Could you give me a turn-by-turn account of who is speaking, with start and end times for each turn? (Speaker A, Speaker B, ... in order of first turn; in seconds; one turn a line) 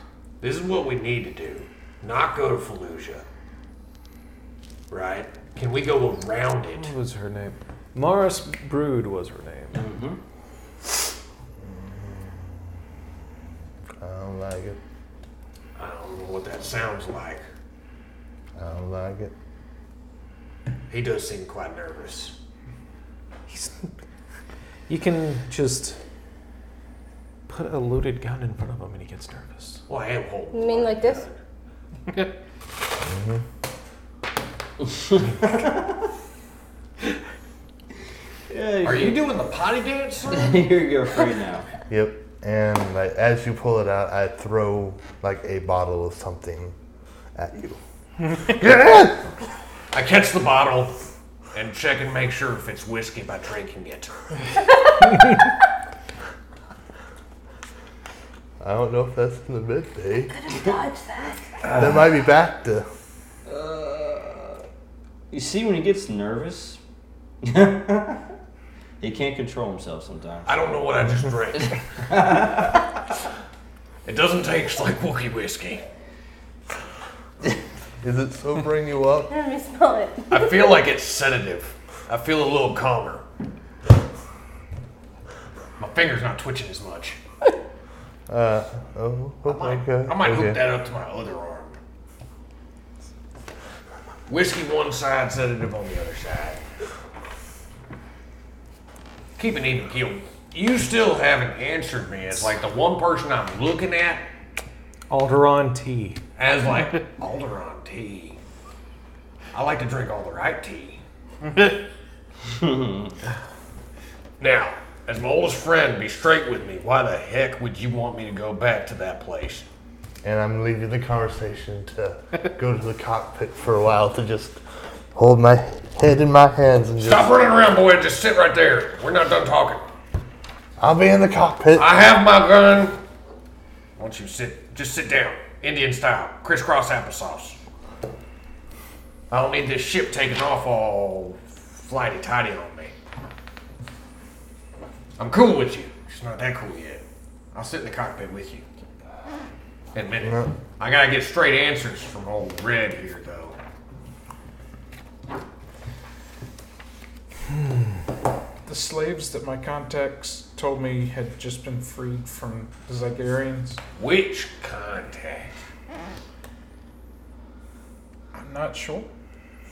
Speaker A: 0.4-3.2
Speaker A: 4.9-6.9
Speaker B: 6.7-9.8
Speaker C: 9.7-10.2
Speaker D: 11.6-12.5
Speaker D: 14.0-14.8
Speaker A: 15.8-17.4
Speaker D: 18.6-19.3
Speaker A: 20.9-22.3
Speaker B: 23.5-23.9
Speaker B: 24.9-26.0
Speaker B: 27.5-29.8
Speaker A: 29.9-31.4
Speaker E: 30.5-31.2
Speaker D: 33.0-33.4
Speaker C: 34.9-36.0
Speaker C: 38.5-39.2
Speaker A: 38.8-40.5
Speaker C: 40.3-41.7
Speaker D: 41.9-46.7
Speaker D: 47.3-47.8
Speaker D: 48.5-49.3
Speaker A: 49.9-51.0
Speaker A: 51.5-54.1
Speaker D: 58.6-60.3
Speaker E: 60.4-61.7
Speaker D: 61.7-62.9
Speaker C: 63.5-64.6
Speaker C: 65.3-66.8
Speaker C: 67.4-68.2
Speaker C: 69.0-70.5
Speaker A: 70.5-71.8
Speaker C: 71.5-72.9
Speaker A: 74.0-75.8
Speaker D: 78.0-79.3
Speaker E: 79.3-80.7
Speaker A: 80.3-83.2
Speaker A: 85.8-87.2
Speaker D: 88.3-90.6
Speaker A: 89.4-91.8
Speaker A: 94.3-96.6
Speaker A: 99.4-104.2
Speaker B: 105.1-106.2
Speaker A: 106.4-108.4
Speaker A: 109.5-111.0
Speaker F: 111.4-111.7
Speaker C: 112.5-113.1
Speaker A: 114.4-119.7
Speaker D: 120.2-124.6
Speaker D: 125.1-127.3
Speaker A: 127.0-129.8
Speaker D: 130.8-132.0
Speaker A: 131.7-133.0
Speaker A: 134.0-137.6
Speaker A: 139.3-142.9
Speaker A: 145.2-148.6
Speaker A: 149.9-153.6
Speaker D: 150.2-150.5
Speaker F: 158.7-163.8
Speaker A: 164.0-165.6
Speaker F: 168.3-169.1